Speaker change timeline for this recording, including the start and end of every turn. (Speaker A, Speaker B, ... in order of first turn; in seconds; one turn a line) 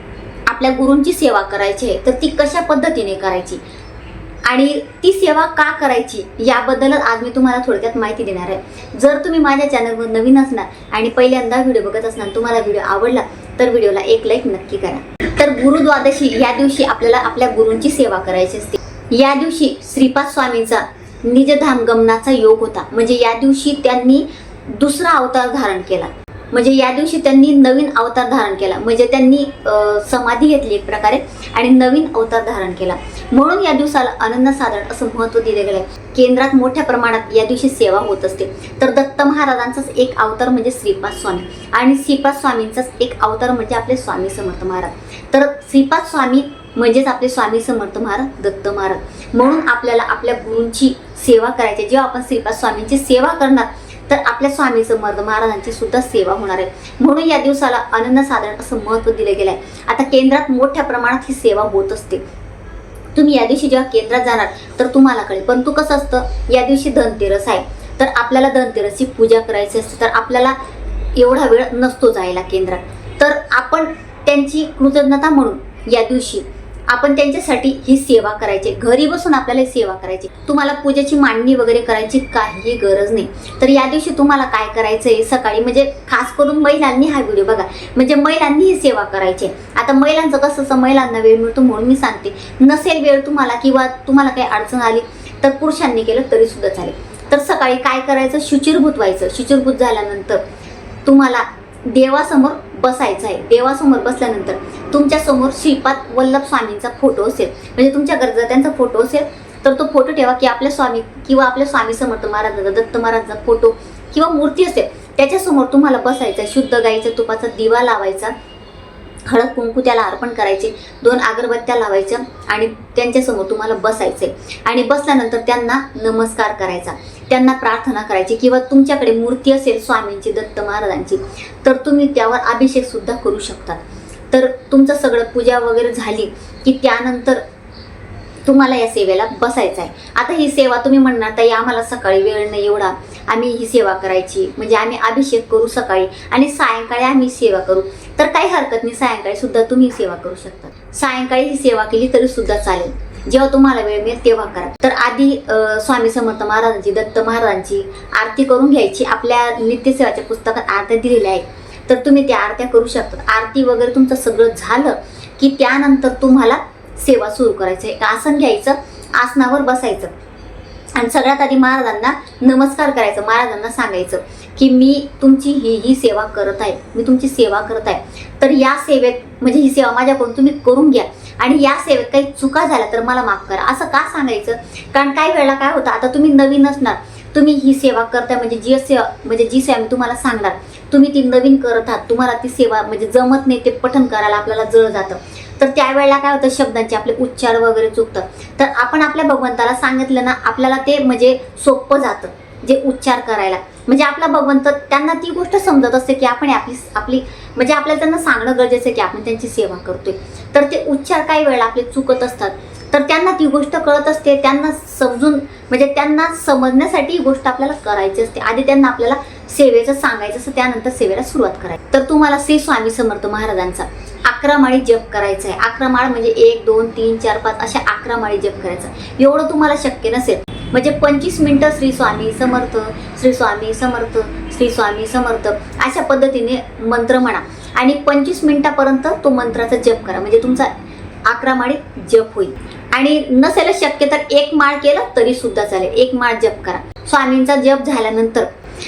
Speaker A: 0.5-3.6
Speaker A: 4.5-62.2
Speaker A: 63.1-70.5
Speaker A: 71.2-100.4
Speaker A: 101.0-118.3
Speaker A: 119.2-137.4
Speaker A: 138.4-170.1
Speaker A: 170.9-240.7
Speaker A: 241.2-248.5